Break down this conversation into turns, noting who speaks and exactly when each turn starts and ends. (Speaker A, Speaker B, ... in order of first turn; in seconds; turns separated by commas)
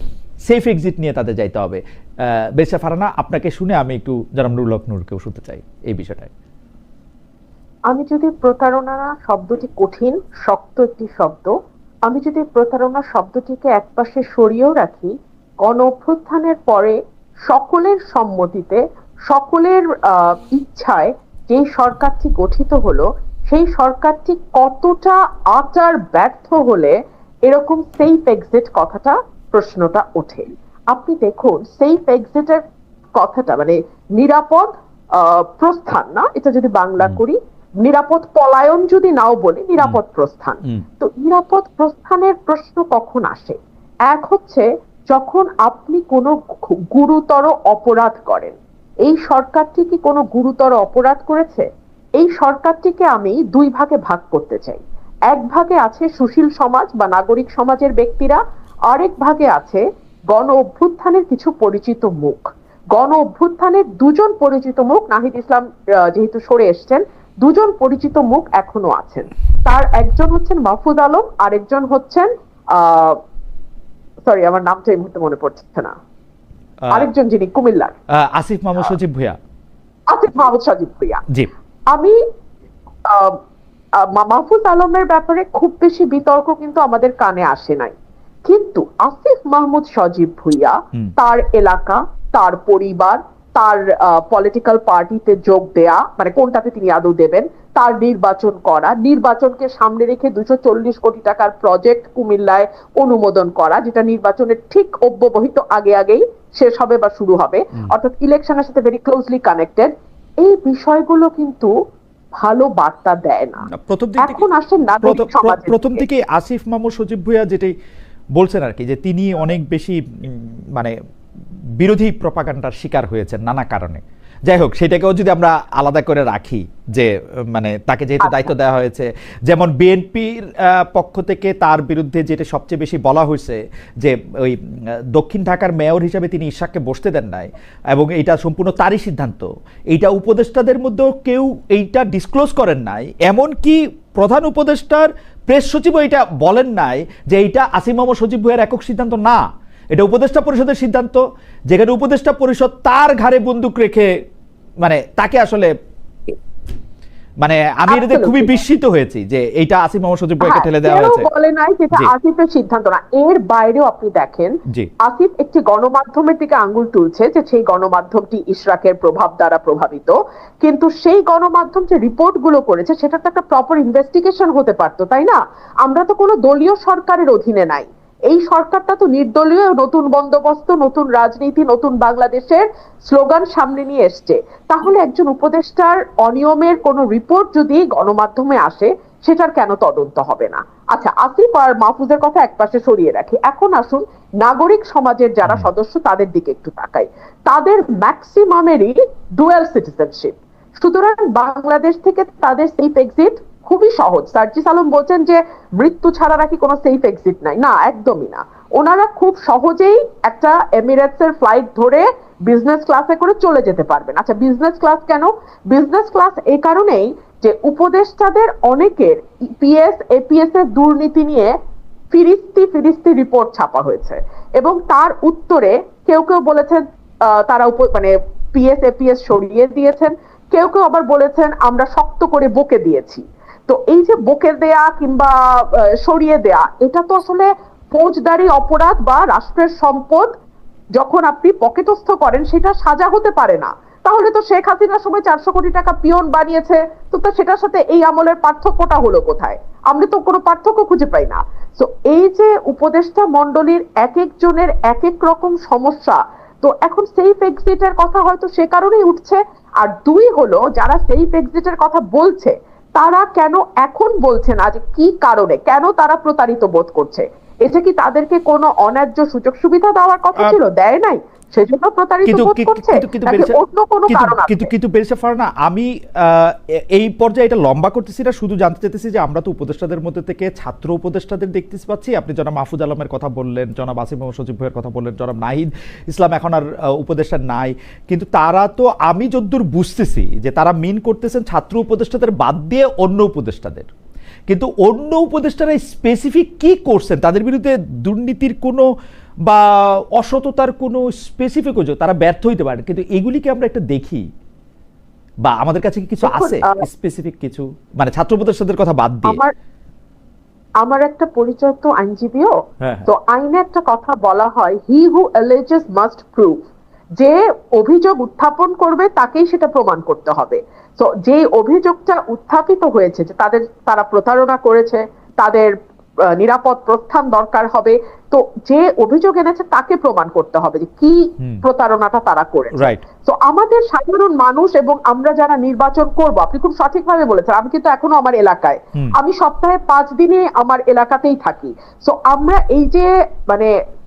Speaker A: 0.5-6.3, Speaker B: 7.9-11.5, Speaker B: 12.1-26.9, Speaker B: 27.5-32.6, Speaker B: 33.1-73.2, Speaker B: 74.3-76.0, Speaker A: 76.8-77.1, Speaker B: 76.9-78.0, Speaker A: 78.2-79.4, Speaker B: 80.1-81.2, Speaker B: 81.9-82.2, Speaker B: 83.0-83.4, Speaker B: 84.0-111.7, Speaker B: 112.3-116.0, Speaker A: 113.7-114.5, Speaker A: 115.0-117.7, Speaker A: 118.4-120.9, Speaker A: 121.8-134.6, Speaker B: 128.2-128.5, Speaker A: 135.1-149.4, Speaker A: 149.9-154.1, Speaker A: 154.8-155.7, Speaker A: 157.4-161.3, Speaker B: 157.9-158.5, Speaker B: 160.4-221.5, Speaker B: 222.1-240.3, Speaker B: 241.0-274.7, Speaker A: 272.3-273.6, Speaker A: 274.1-293.9, Speaker A: 294.5-298.9, Speaker A: 300.2-304.2, Speaker A: 305.4-309.4, Speaker B: 306.2-306.9, Speaker B: 309.3-309.5, Speaker B: 310.8-312.5, Speaker A: 312.8-313.1, Speaker B: 313.1-316.6, Speaker B: 317.2-325.8, Speaker B: 326.3-343.7, Speaker A: 332.7-333.0